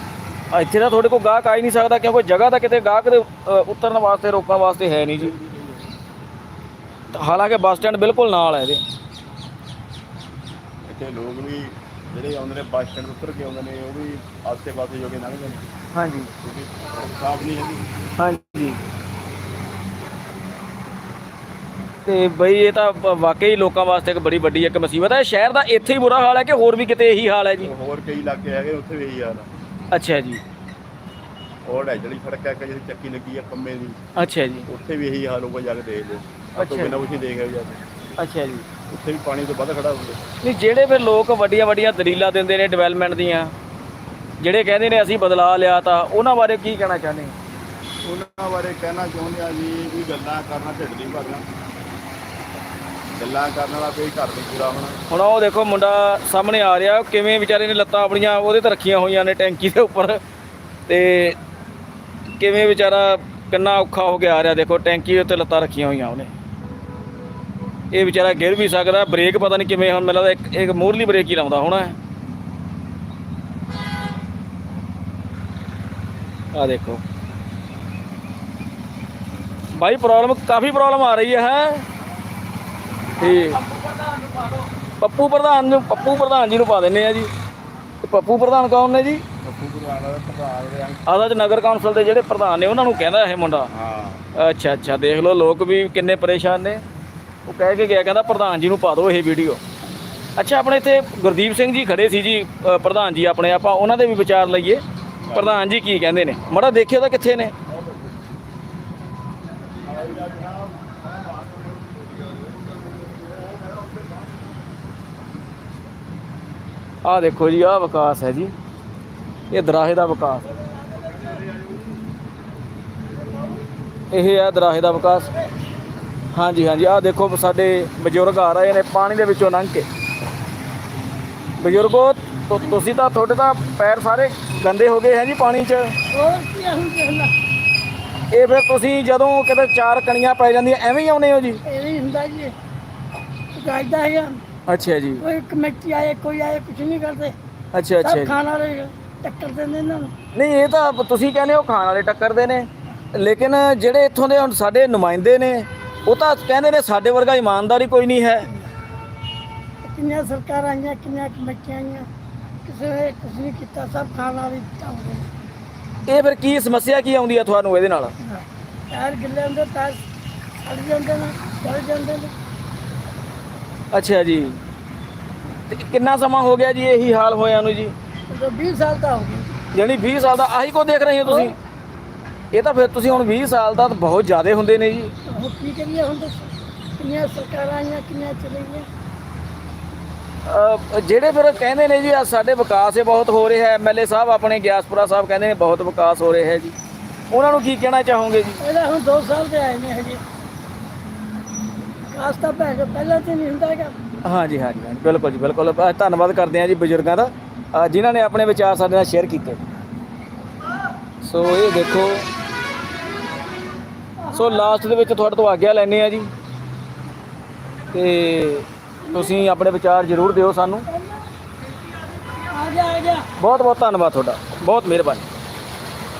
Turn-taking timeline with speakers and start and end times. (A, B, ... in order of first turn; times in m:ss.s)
0:00.5-0:05.3 A
0:05.2-0:05.9 B
0:07.1-0:08.8 A
0:10.8-0:15.6 B
0:15.9-0:16.3 A
0:16.4-0:17.9 B
0:18.2-0:18.8 A
0:22.0-0:27.7 A
0:27.6-0:29.5 B
0:29.9-0:30.4 A
0:31.6-0:34.0 B
0:34.2-0:34.7 A
0:34.7-0:37.8 B
0:36.6-0:37.0 A
0:38.2-0:38.6 A
0:38.9-0:40.2 B
0:40.4-0:43.5 A
0:44.4-0:47.4 A
0:48.0-0:51.5 B
0:53.2-0:55.0 B
0:55.1-1:00.2 A
1:00.9-1:01.4 A
1:02.4-1:06.3 A
1:07.9-1:12.0 A
1:16.5-1:17.0 A
1:19.7-1:21.8 A
1:23.2-1:27.3 A
1:28.0-1:29.2 A
1:29.4-1:31.0 B
1:31.1-1:33.7 A
1:33.7-1:34.3 B
1:34.3-1:36.8 A
1:37.4-1:39.6 A
1:40.4-1:47.5 A
1:45.2-1:45.6 B
1:49.8-1:50.9 B
1:57.0-1:58.5 A
1:59.5-2:00.6 A
2:04.1-2:05.3 A
2:06.3-2:09.8 A
2:11.6-2:15.9 A
2:16.1-2:17.3 C
2:18.3-2:21.6 A
2:21.6-2:22.5 C
2:23.5-2:24.4 C
2:24.7-2:25.2 A
2:25.2-2:27.3 C
2:27.7-2:28.3 A
2:28.0-2:30.1 C
2:30.3-2:38.5 A
2:39.8-2:42.1 C
2:42.6-2:45.3 C
2:46.0-2:48.1 A
2:48.2-2:50.0 C
2:50.6-2:52.3 C
2:53.9-2:54.6 A
2:55.7-2:57.9 A
2:58.3-2:59.5 C
2:59.7-3:01.5 A
3:02.5-3:05.1 A
3:05.3-3:08.9 C
3:10.4-3:16.7 A
3:17.3-3:18.6 A
3:18.6-3:20.2 C
3:22.1-3:24.0 C
3:24.2-3:29.6 A
3:31.2-3:32.3 A
3:34.3-3:36.3 A
3:37.9-3:40.9 A
3:42.2-3:43.3 C
3:43.4-3:45.3 A